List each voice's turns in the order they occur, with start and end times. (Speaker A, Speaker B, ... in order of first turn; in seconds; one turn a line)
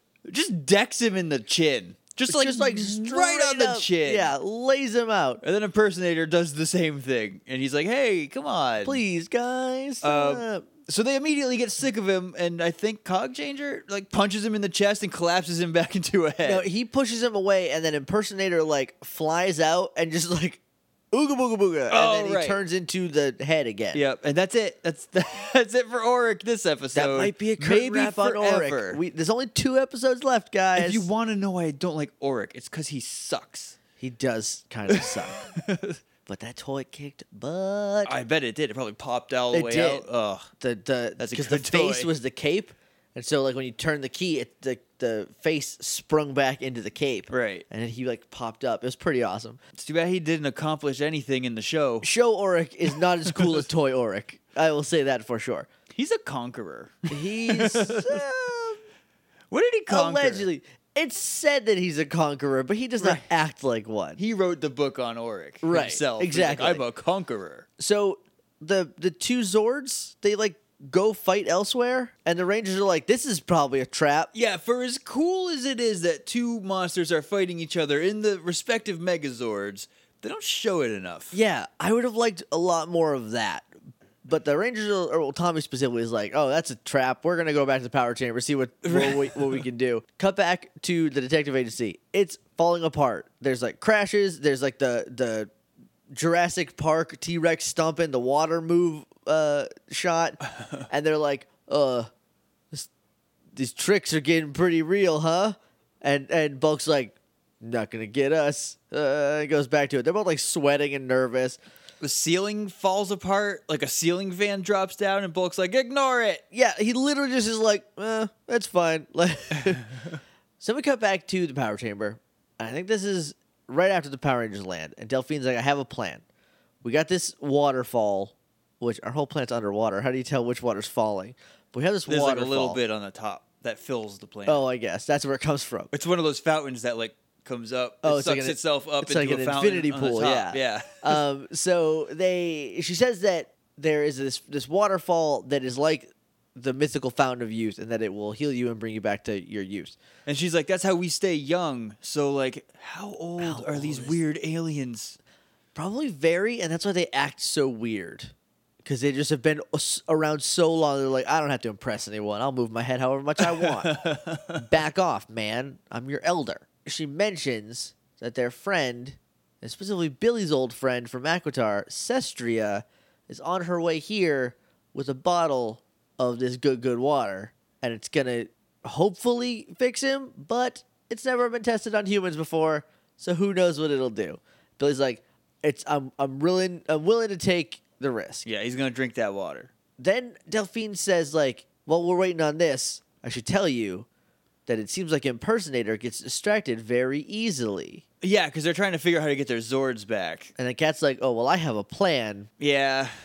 Speaker A: 0.3-4.3
Speaker B: 2.3-5.4
Speaker A: 5.4-9.0
Speaker B: 8.8-10.7
Speaker A: 10.0-16.7
Speaker B: 16.4-20.6
Speaker B: 21.1-24.0
Speaker A: 21.9-22.6
Speaker A: 23.9-29.0
Speaker B: 26.9-31.1
Speaker A: 30.8-33.8
Speaker B: 34.0-35.5
Speaker A: 34.9-36.0
Speaker B: 36.3-38.2
Speaker A: 38.0-40.5
Speaker B: 39.5-40.1
Speaker B: 40.6-49.6
Speaker A: 41.2-42.1
Speaker A: 47.3-47.7
Speaker A: 49.8-52.1
Speaker B: 52.0-55.7
Speaker A: 53.4-53.6
Speaker A: 55.9-58.2
Speaker B: 57.1-58.8
Speaker A: 59.5-60.5
Speaker B: 59.9-64.2
Speaker A: 63.0-63.3
Speaker A: 64.2-67.7
Speaker B: 65.6-66.8
Speaker B: 67.8-74.3
Speaker A: 74.3-81.3
Speaker B: 81.3-83.7
Speaker B: 84.2-95.5
Speaker A: 88.8-89.6
Speaker B: 96.1-102.1
Speaker B: 103.6-111.6
Speaker A: 112.0-116.4
Speaker B: 116.5-119.9
Speaker B: 120.6-126.2
Speaker B: 126.8-132.8
Speaker A: 132.1-134.7
Speaker B: 134.5-135.9
Speaker A: 135.9-141.2
Speaker B: 138.0-150.0
Speaker A: 150.3-155.2
Speaker B: 153.4-154.2
Speaker B: 155.8-164.0
Speaker A: 163.4-164.6
Speaker B: 164.6-188.5
Speaker A: 188.4-189.7
Speaker B: 190.0-194.1
Speaker B: 194.7-198.0
Speaker A: 198.2-200.5
Speaker B: 200.6-202.5
Speaker A: 202.6-203.1